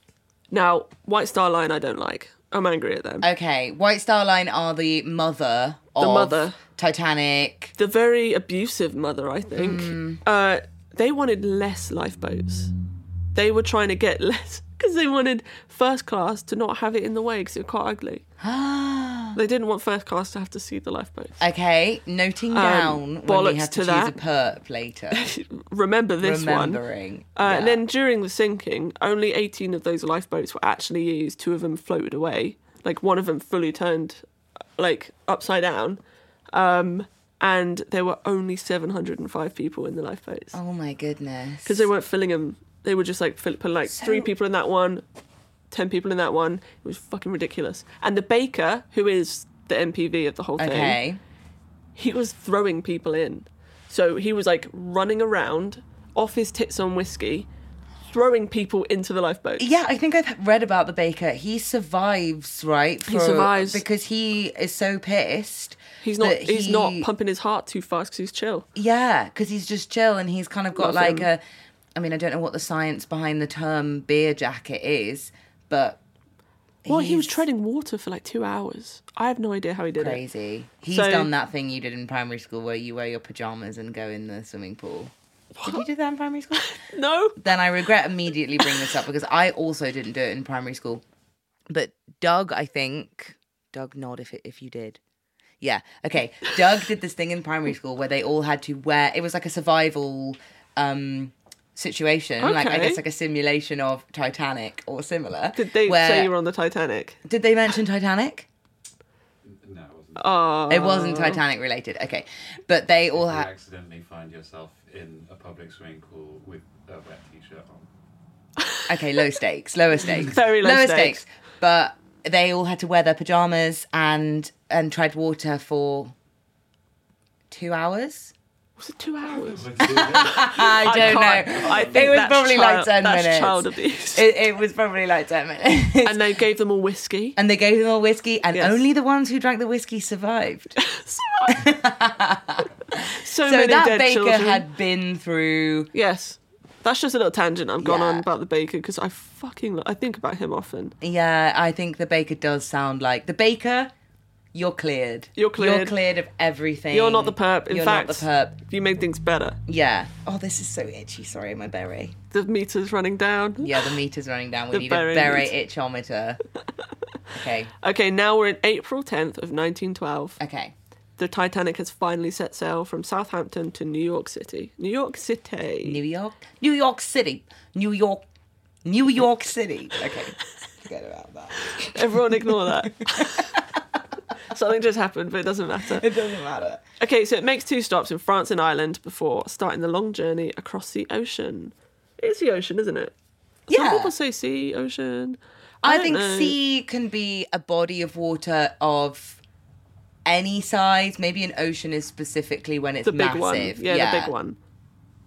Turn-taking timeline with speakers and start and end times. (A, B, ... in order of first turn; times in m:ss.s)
0:00.5-0:03.2 A
0:03.2-0:07.7 B
0:06.0-0:06.6 A
0:07.8-0:12.7 A
0:09.6-0:10.2 B
0:13.3-0:18.2 A
0:18.4-0:19.4 B
0:19.3-0:21.4 A
0:21.4-0:25.3 B
0:22.5-0:24.2 A
0:25.1-0:26.8 A
0:26.2-0:27.8 B
0:27.3-0:34.2 A
0:34.8-0:36.0 A
0:36.5-0:40.6 A
0:40.5-0:41.9 B
0:41.6-0:45.0 A
0:43.9-0:44.3 B
0:45.7-0:51.0 A
0:50.6-0:51.2 B
0:52.0-0:57.5 A
0:58.1-0:59.7 A
0:59.6-1:07.1 B
1:03.0-1:03.8 A
1:06.0-1:08.6 A
1:08.8-1:11.4 B
1:10.8-1:11.3 A
1:11.9-1:16.0 B
1:16.8-1:17.4 B
1:16.8-1:20.2 A
1:20.0-1:25.1 B
1:20.9-1:21.3 A
1:25.6-1:25.8 A
1:25.6-1:26.7 B
1:26.6-1:27.4 A
1:27.4-1:31.0 B
1:31.7-1:35.0 B
1:35.6-1:46.3 B
1:42.4-1:43.0 A
1:45.5-1:47.2 A
1:47.2-1:48.5 B
1:49.4-1:50.3 C
1:50.2-1:51.4 A
1:50.7-1:53.5 B
1:53.1-1:57.9 C
1:58.6-1:58.9 A
1:58.9-2:06.1 B
2:00.3-2:01.2 A
2:07.5-2:08.3 B
2:08.8-2:14.3 A
2:09.3-2:12.1 C
2:09.8-2:16.3 B
2:16.0-2:17.4 A
2:17.4-2:20.8 B
2:18.5-2:18.8 A
2:20.8-2:21.6 A
2:21.5-2:25.9 B
2:23.0-2:24.6 A
2:25.9-2:30.9 A
2:27.8-2:28.3 B
2:31.0-2:33.9 B
2:34.5-2:38.6 B
2:35.4-2:35.9 A
2:36.9-2:39.6 A
2:39.7-2:42.2 B
2:42.3-2:43.9 A
2:43.6-2:46.4 B
2:44.7-2:45.5 A
2:47.3-2:47.7 B
2:47.8-2:50.4 A
2:50.4-2:50.7 B
2:51.2-2:56.0 A
2:55.8-2:58.2 B
2:58.8-3:04.0 B
3:01.7-3:03.5 A
3:04.5-3:06.1 A
3:05.8-3:06.8 B
3:07.0-3:13.1 A
3:13.7-3:16.6 A
3:13.7-3:14.1 B
3:15.8-3:19.4 B
3:20.2-3:24.3 B
3:23.0-3:24.6 A